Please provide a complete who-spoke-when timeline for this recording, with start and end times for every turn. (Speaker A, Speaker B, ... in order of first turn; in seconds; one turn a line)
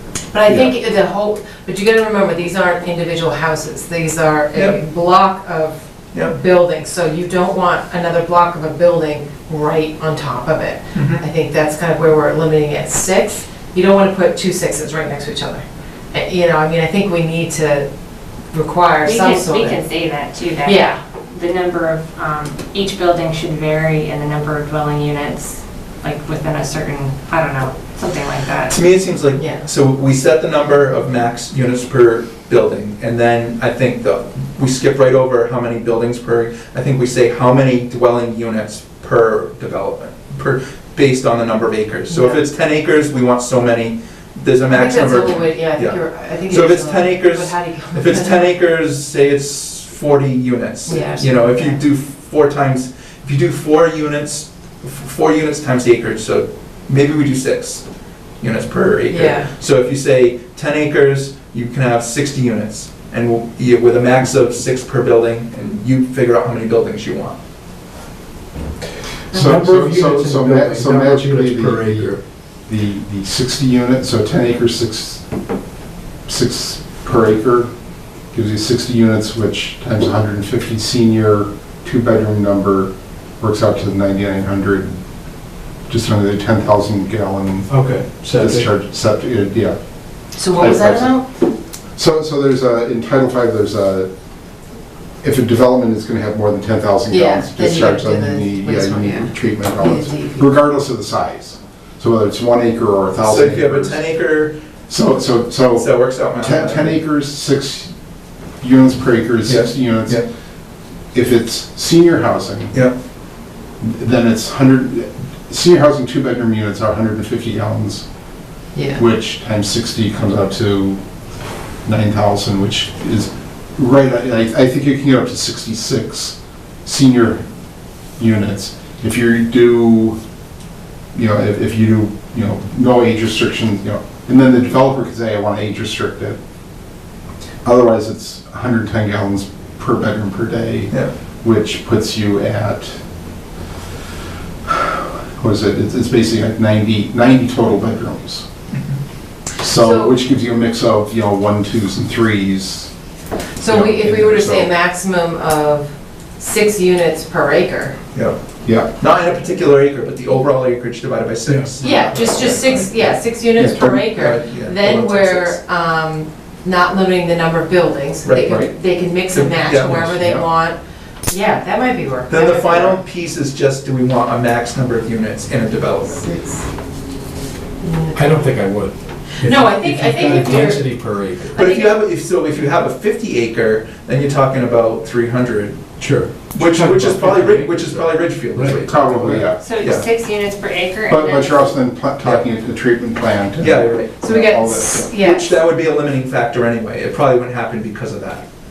Speaker A: 0.3-17.9
Speaker B: 6.1-6.4
Speaker B: 10.9-11.2
Speaker A: 18.5-19.8
Speaker C: 19.0-28.8
Speaker A: 20.6-21.0
Speaker B: 28.7-57.9
Speaker A: 29.4-29.6
Speaker A: 42.1-42.4
Speaker A: 44.7-48.6
Speaker A: 50.9-51.8
Speaker B: 58.4-67.4
Speaker A: 59.1-59.5
Speaker D: 69.3-72.2
Speaker E: 69.3-72.2
Speaker D: 72.7-75.2
Speaker D: 76.3-77.7
Speaker D: 78.3-85.0
Speaker D: 85.9-87.8
Speaker E: 87.7-88.7
Speaker D: 88.3-89.8
Speaker A: 90.4-91.3
Speaker D: 90.5-91.2
Speaker D: 92.0-94.1
Speaker D: 95.2-104.0
Speaker A: 97.1-100.5
Speaker B: 103.2-104.5
Speaker D: 104.9-107.9
Speaker B: 105.8-107.0
Speaker D: 108.6-110.2
Speaker B: 109.5-110.3
Speaker D: 111.1-112.8
Speaker D: 113.8-118.0
Speaker A: 118.7-119.0
Speaker D: 118.9-121.0
Speaker D: 121.8-127.4
Speaker D: 128.2-130.2
Speaker D: 131.1-136.4
Speaker D: 137.6-143.0
Speaker D: 144.7-148.5
Speaker B: 148.7-149.0
Speaker D: 149.6-152.9
Speaker A: 149.8-150.2
Speaker A: 153.6-158.0
Speaker D: 153.6-154.7
Speaker B: 158.1-165.6
Speaker D: 158.7-158.9
Speaker E: 161.5-161.7
Speaker A: 161.8-173.0
Speaker D: 163.6-164.1
Speaker B: 168.2-168.6
Speaker D: 168.4-168.7
Speaker B: 169.3-170.2
Speaker D: 170.0-170.5
Speaker B: 172.3-176.3
Speaker A: 176.1-176.7
Speaker A: 177.8-178.3
Speaker E: 178.2-181.6
Speaker A: 179.4-180.8
Speaker B: 181.5-185.8
Speaker C: 181.6-181.9
Speaker E: 186.0-189.4
Speaker B: 186.5-190.1
Speaker D: 188.8-189.6
Speaker C: 189.6-191.8
Speaker D: 191.1-195.1
Speaker B: 193.6-194.2
Speaker A: 194.2-195.6
Speaker B: 195.1-198.4